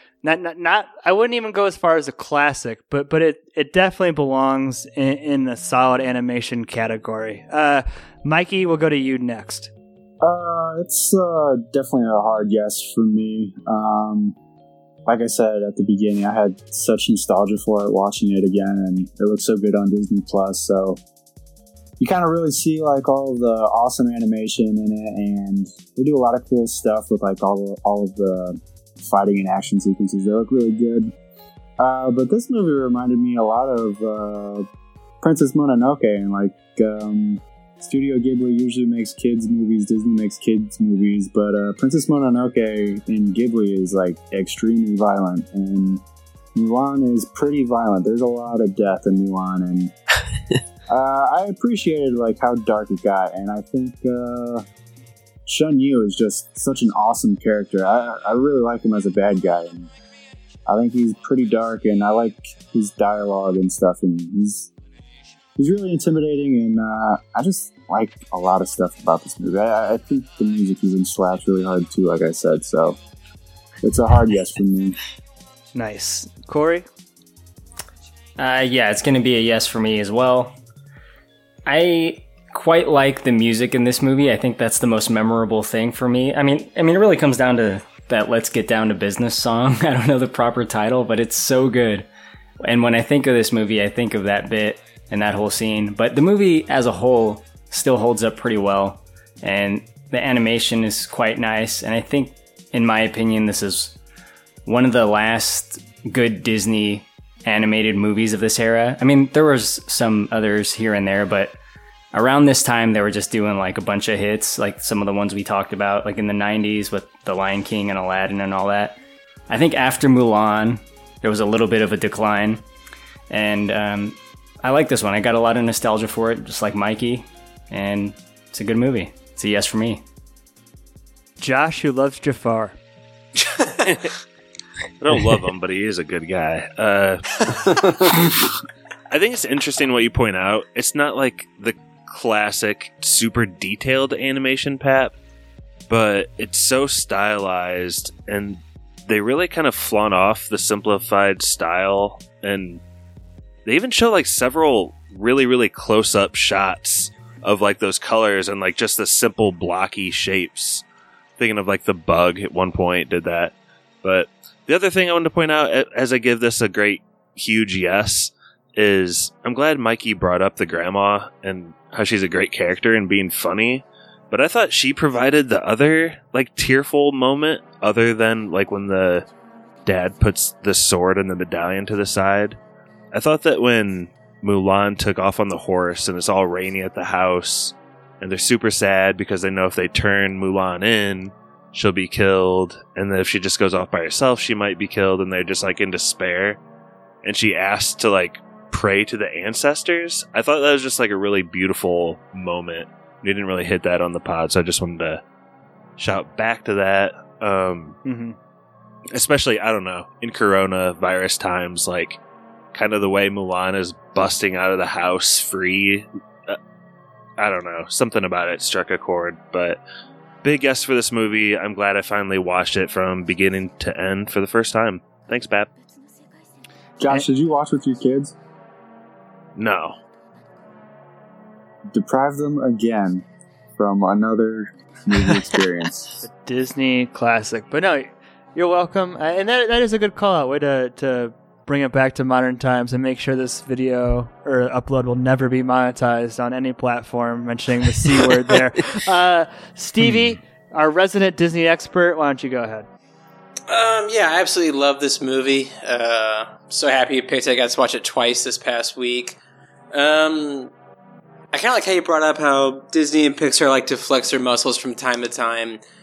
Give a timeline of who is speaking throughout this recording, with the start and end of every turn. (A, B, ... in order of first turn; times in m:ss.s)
0:00.2-0:09.7 A
0:10.2-0:14.4 B
0:15.0-0:21.0 B
0:22.0-0:31.1 B
0:31.8-0:34.6 B
0:35.2-0:46.0 B
0:46.5-0:49.9 B
0:50.9-0:54.6 B
0:55.4-0:59.9 B
1:00.6-1:04.7 B
1:05.6-1:13.0 B
1:13.8-1:15.0 B
1:15.7-1:16.8 A
1:18.4-1:20.5 C
1:21.6-1:32.0 C
1:32.6-1:43.9 C
1:44.6-1:51.5 C
1:52.1-1:59.0 C
1:59.5-2:02.6 C
2:03.3-2:10.0 C
2:11.4-2:12.8 A
2:15.0-2:18.3 D
2:19.1-2:25.1 D
2:25.9-2:32.8 D
2:33.6-2:40.8 D
2:41.4-2:59.2 D
2:59.8-3:02.6 D
3:03.1-3:16.6 D
3:17.2-3:25.2 D
3:26.0-3:28.0 D
3:28.0-3:28.4 A
3:29.1-3:32.2 D
3:32.7-3:36.6 D
3:37.4-3:39.8 D
3:40.4-3:45.7 D
3:47.0-3:48.3 B
3:49.6-3:50.0 D
3:51.9-3:53.2 B
3:53.8-3:56.2 B
3:56.2-4:12.9 A
4:13.7-4:19.4 E
4:19.9-4:20.7 E
4:21.5-4:25.8 E